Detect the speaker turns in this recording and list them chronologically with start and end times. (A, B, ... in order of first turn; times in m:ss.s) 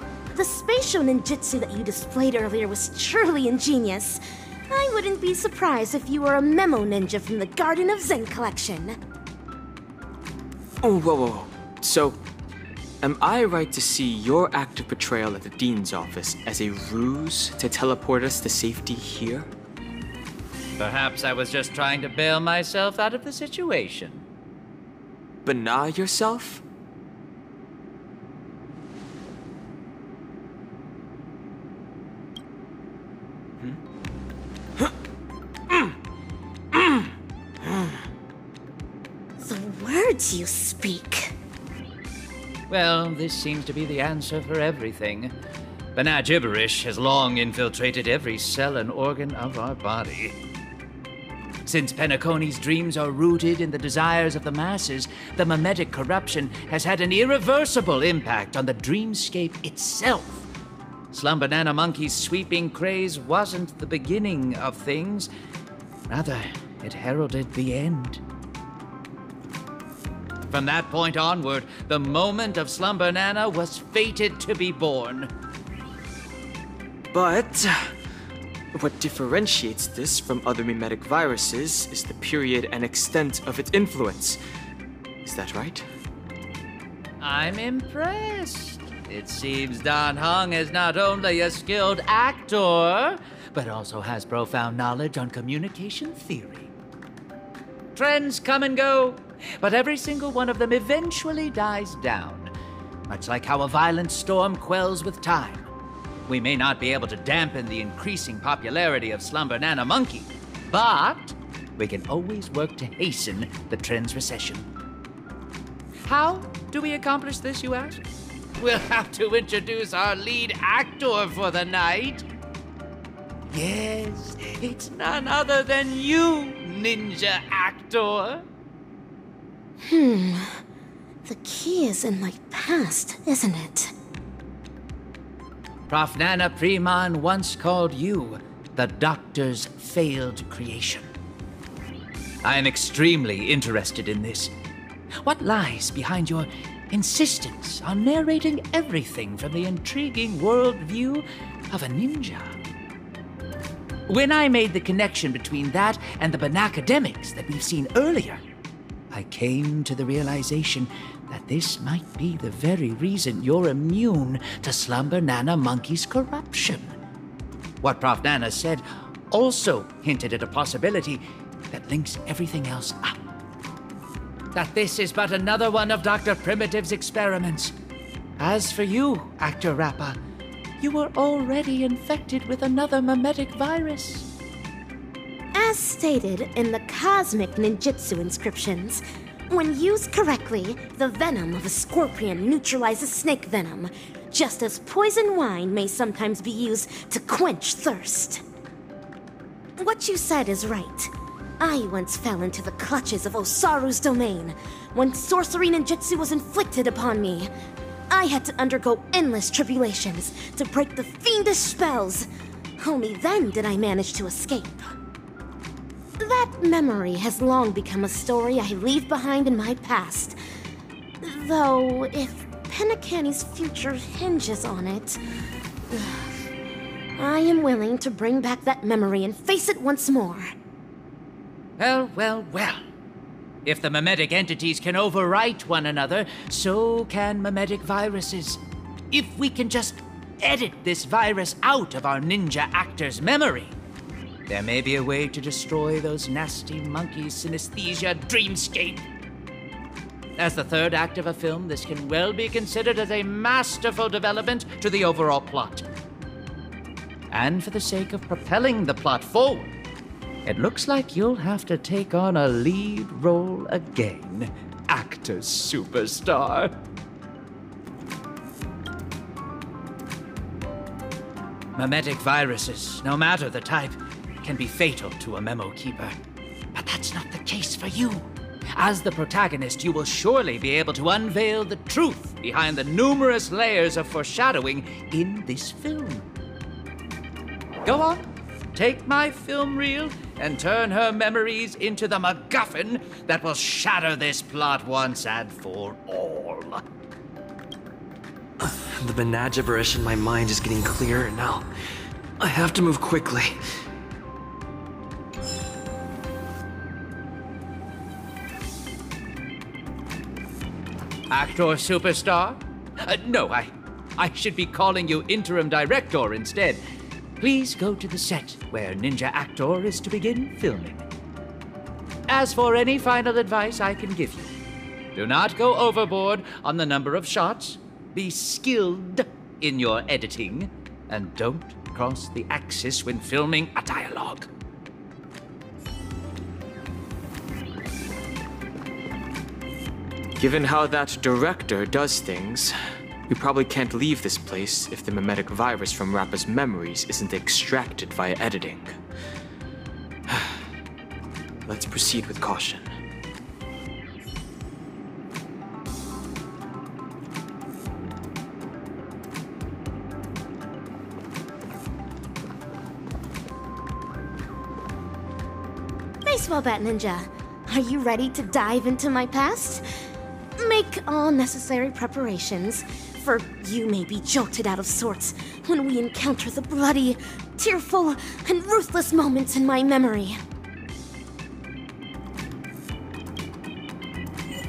0:00.3-0:09.0 A
0:10.8-0:12.2 B
0:13.0-0:19.5 B
0:20.8-0:24.3 C
0:25.4-0:26.6 B
0:39.4-0:41.4 A
0:42.7-0:45.3 C
0:46.0-0:50.4 C
0:51.7-1:00.5 C
1:01.1-1:05.3 C
1:06.1-1:08.2 C
1:10.5-1:15.3 C
1:17.1-1:17.9 B
1:18.7-1:24.4 B
1:25.2-1:25.8 B
1:27.2-1:36.7 C
1:38.0-1:42.5 C
1:43.1-1:45.7 C
1:46.3-1:54.7 C
1:56.0-1:58.0 C
1:58.6-2:02.3 C
2:03.5-2:08.4 C
2:09.8-2:10.6 A
2:11.3-2:13.9 A
2:15.9-2:21.1 C
2:22.4-2:24.5 C
2:25.2-2:32.6 C
2:34.1-2:38.4 C
2:39.1-2:47.0 C
2:47.8-2:53.3 C
2:54.5-2:57.8 C
2:58.4-3:00.2 C
3:00.8-3:04.3 C
3:05.5-3:18.4 A
3:19.8-3:27.5 A
3:28.1-3:32.3 A
3:32.8-3:34.9 A
3:36.2-3:40.4 A
3:41.2-3:45.2 A
3:45.9-3:46.5 A
3:47.2-3:50.5 A
3:51.8-3:52.8 C
3:53.6-3:58.6 C
3:59.1-4:03.8 C
4:04.5-4:09.0 C
4:10.4-4:15.8 C
4:17.3-4:19.7 C
4:20.5-4:26.7 C
4:31.8-4:36.2 C
4:36.7-4:46.2 C
4:47.8-4:56.8 C
4:58.6-5:01.7 D
5:02.4-5:03.5 D
5:11.3-5:16.8 C
5:17.4-5:21.1 C
5:22.3-5:24.5 C
5:25.2-5:34.5 C
5:40.4-5:42.7 B
5:43.3-5:48.9 B
5:50.3-5:50.6 B
5:51.7-5:52.9 B
6:06.2-6:09.8 A
6:10.6-6:20.4 A